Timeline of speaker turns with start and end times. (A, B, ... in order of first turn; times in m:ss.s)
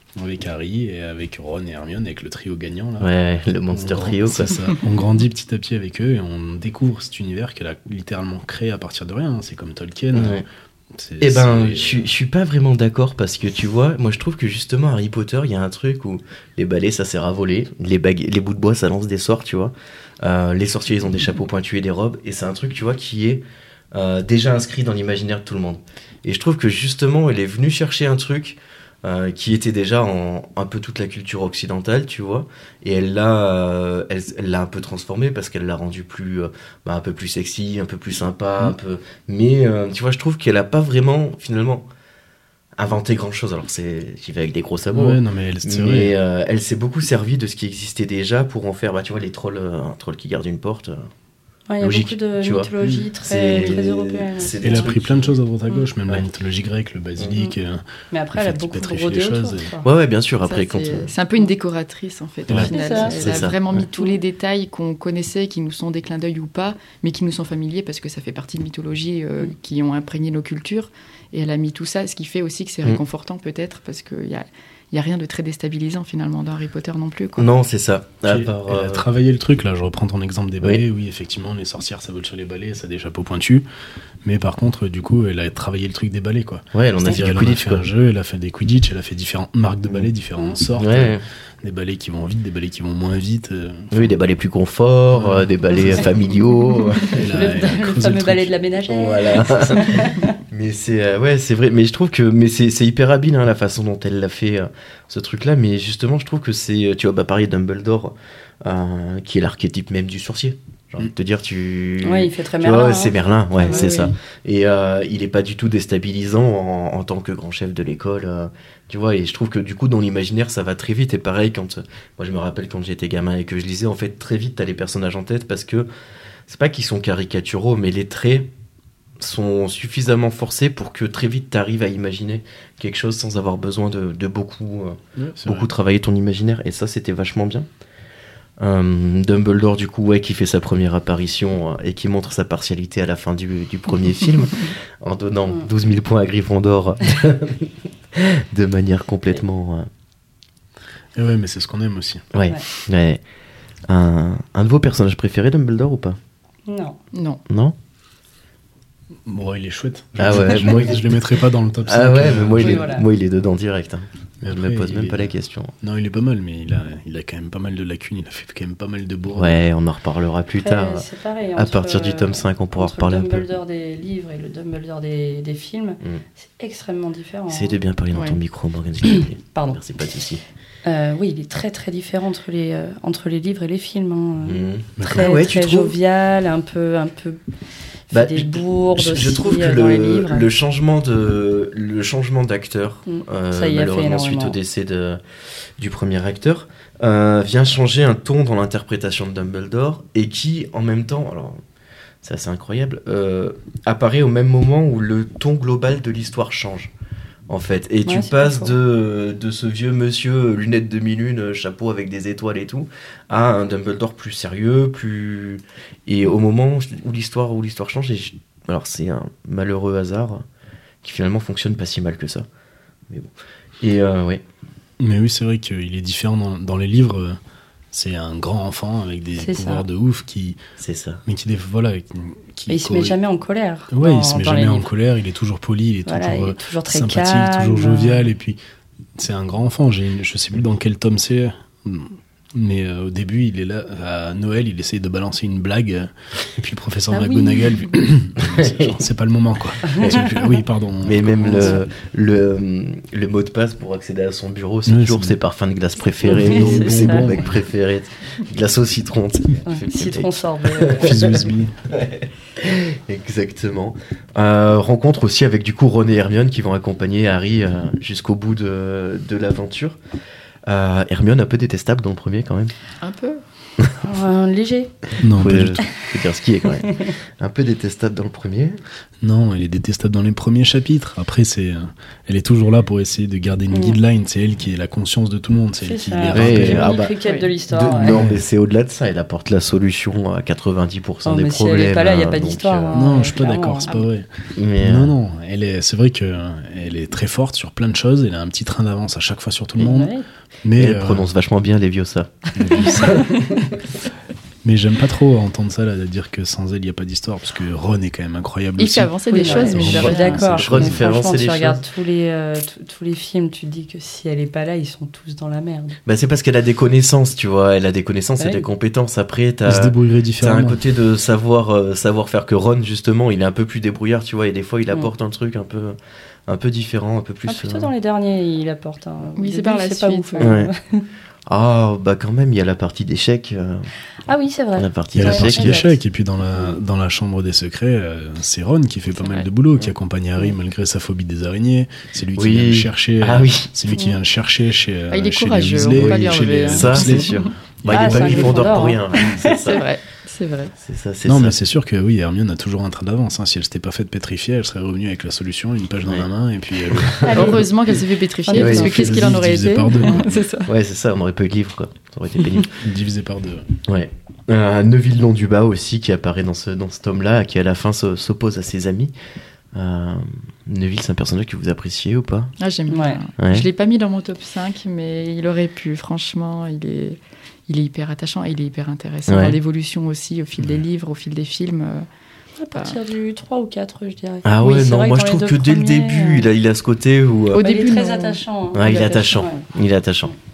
0:00.2-0:03.1 A
0:03.0-0:04.6 B
0:03.7-0:12.1 A
0:10.1-0:10.4 B
0:11.2-0:41.8 B
0:42.8-0:51.1 B
0:44.9-0:46.2 A
0:51.7-0:54.9 C
0:51.8-0:55.4 B
0:52.8-0:53.1 A
0:54.6-0:59.7 A
0:57.2-0:57.5 B
0:58.1-0:59.9 C
0:59.8-1:01.1 B
1:00.4-1:17.5 D
1:02.5-1:02.7 A
1:02.6-1:03.4 C
1:03.1-1:03.8 B
1:17.4-1:19.0 B
1:18.2-1:23.6 A
1:24.2-1:33.9 A
1:26.7-1:27.8 B
1:30.8-1:31.2 B
1:33.9-1:37.2 B
1:35.1-1:36.1 A
1:37.0-1:40.4 C
1:37.1-1:38.5 A
1:38.9-2:05.9 B
1:52.0-1:53.9 C
1:53.6-1:54.1 D
2:06.5-2:08.5 B
2:09.2-2:17.7 B
2:15.2-2:15.7 A
2:18.6-2:29.9 B
2:31.1-2:32.2 A
2:32.3-2:33.2 B
2:33.9-2:36.2 B
2:36.7-2:37.0 C
2:37.1-2:37.4 D
2:37.5-2:37.7 B
2:39.2-2:42.9 A
2:40.2-2:41.0 B
2:41.8-2:45.7 B
2:42.6-2:43.0 C
2:44.4-2:49.6 A
2:49.3-2:53.5 B
2:50.6-2:57.8 C
2:57.5-3:00.4 B
2:58.1-2:58.4 D
2:59.2-2:59.8 C
3:00.8-3:07.4 C
3:04.4-3:06.0 B
3:05.0-3:05.4 A
3:08.1-3:10.4 C
3:08.1-3:15.2 B
3:13.0-3:14.6 C
3:15.8-3:21.6 B
3:22.2-3:26.9 B
3:27.5-3:40.4 B
3:28.0-3:28.8 C
3:41.0-3:42.5 B
3:43.1-3:44.4 B
3:45.0-3:47.4 A
3:47.9-3:50.6 A
3:49.4-3:49.8 C
3:50.8-3:51.2 B
3:51.2-3:53.2 A
3:52.7-3:54.9 C
3:53.9-3:58.6 A
3:56.0-3:58.3 C
3:59.2-4:11.8 A
4:07.1-4:07.8 C
4:08.4-4:09.0 B
4:09.9-4:10.3 C
4:11.0-4:30.0 B
4:14.8-4:15.4 A
4:16.2-4:17.4 C
4:16.2-4:17.6 A
4:19.7-4:21.4 C
4:21.0-4:21.7 A
4:30.6-4:32.7 B
4:33.0-4:33.4 D
4:34.0-4:35.1 C
4:35.2-4:35.8 A
4:35.3-4:38.8 B
4:36.8-4:37.1 C
4:39.2-4:47.0 A
4:43.7-4:44.0 C
4:45.8-4:48.2 C
4:46.3-4:47.1 B
4:47.2-4:47.5 D
4:47.7-4:53.0 B
4:48.1-4:48.4 A
4:51.2-4:53.9 C
4:52.9-4:54.3 A
4:54.6-4:55.1 B
4:54.8-5:01.3 A
4:59.8-5:00.2 C
5:00.8-5:03.6 B
5:02.6-5:03.2 A
5:04.6-5:11.0 A
5:08.8-5:10.5 D
5:09.3-5:16.0 C
5:09.8-5:11.8 B
5:16.0-5:27.9 B
5:18.4-5:18.6 C
5:19.6-5:20.8 A
5:27.4-5:31.0 C
5:29.4-5:30.6 D
5:30.4-5:30.7 B
5:31.5-5:33.9 B
5:34.2-5:36.0 C
5:34.8-5:35.9 B
5:35.1-5:48.6 A
5:39.1-5:39.4 D
5:42.4-5:43.7 B
5:45.1-5:47.5 D
5:45.9-5:49.8 B
5:47.9-5:49.6 C
5:49.6-5:50.7 D
5:50.8-5:51.6 B
5:51.2-5:57.6 A
5:56.9-5:57.4 B
5:57.2-5:57.7 C
5:57.3-6:00.7 D
5:58.4-5:59.3 C
5:58.5-5:58.9 B
5:58.7-6:00.4 A
6:00.6-6:02.8 B
6:02.8-6:03.7 A
6:03.8-6:09.1 B
6:09.7-6:12.5 B
6:12.6-6:22.0 D
6:12.9-6:13.2 C
6:13.4-6:13.7 B
6:19.3-6:19.6 B
6:22.6-6:26.5 C
6:24.4-6:27.6 B
6:27.5-6:28.4 D
6:27.5-6:29.6 C
6:28.7-6:30.3 B